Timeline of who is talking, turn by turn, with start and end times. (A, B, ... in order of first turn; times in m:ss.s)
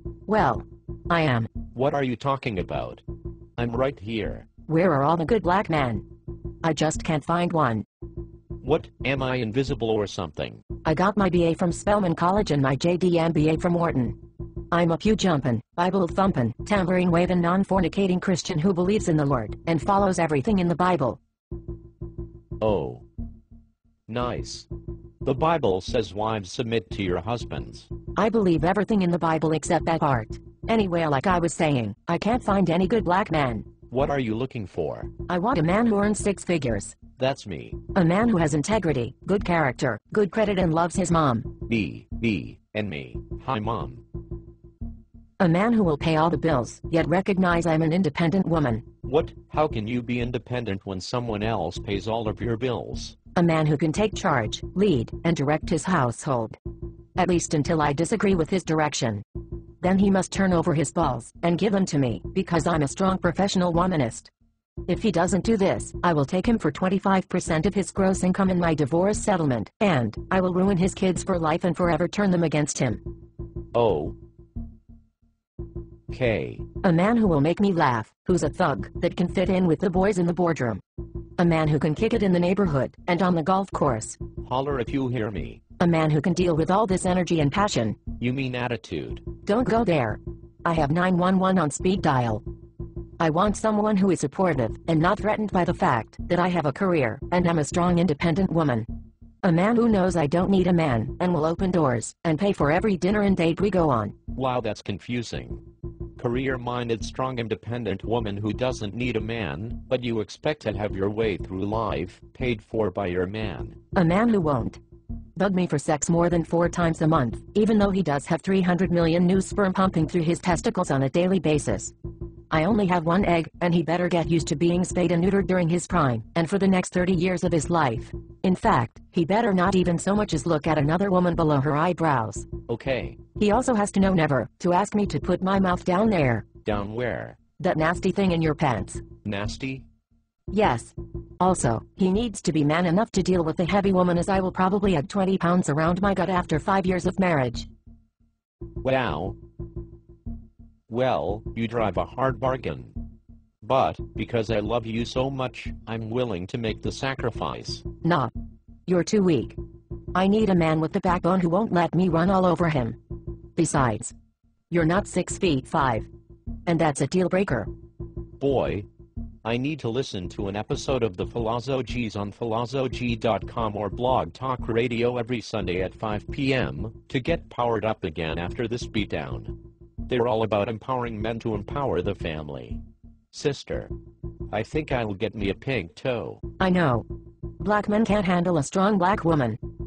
0:00.3-0:01.5 A
0:01.8-0:03.0 B
0:03.6-0:04.5 B
0:04.7-0:06.0 A
0:06.6-0:07.9 A
0:08.6-0:10.6 B
0:10.8-0:14.2 A
0:14.7-0:21.2 A
0:22.6-0:23.0 B
0:24.1-0:24.7 B
0:25.2-0:27.9 B
0:28.2-0:33.7 A
0:33.9-0:35.1 B
0:35.3-0:37.0 A
0:37.2-0:37.8 B
0:37.9-0:41.5 A
0:41.7-0:44.0 B
0:45.4-0:48.8 A
0:49.0-0:53.2 B
0:53.4-0:56.6 A
0:57.2-0:59.2 A
0:59.8-1:04.3 A
1:04.9-1:13.0 A
1:13.7-1:14.2 B
1:16.1-1:16.6 B
1:16.8-1:20.8 A
1:21.4-1:24.2 A
1:24.4-1:25.6 B
1:25.8-1:28.0 A
1:28.2-1:29.2 B
1:29.4-1:32.4 A
1:33.2-1:38.9 A
1:39.4-1:44.2 A
1:44.4-1:45.6 B
1:46.2-1:53.8 B
1:54.0-1:54.8 A
1:55.4-2:01.9 A
2:02.5-2:12.5 A
2:12.7-2:13.2 B
2:13.4-2:16.5 A
2:16.6-2:17.4 B
2:17.6-2:19.0 A
2:19.2-2:19.8 B
2:20.5-2:27.7 A
2:28.8-2:29.4 B
2:30.9-2:33.0 B
2:33.6-2:37.8 B
2:38.0-2:38.3 A
2:38.9-2:39.6 A
2:40.2-2:43.0 A
2:43.6-2:44.1 A
2:44.7-2:46.1 A
2:46.7-2:47.7 A
2:48.4-2:48.9 B
2:49.4-2:59.6 B
3:00.1-3:02.8 B
3:03.3-3:03.9 B
3:04.5-3:06.4 B
3:06.6-3:07.1 A
3:07.6-3:09.6 A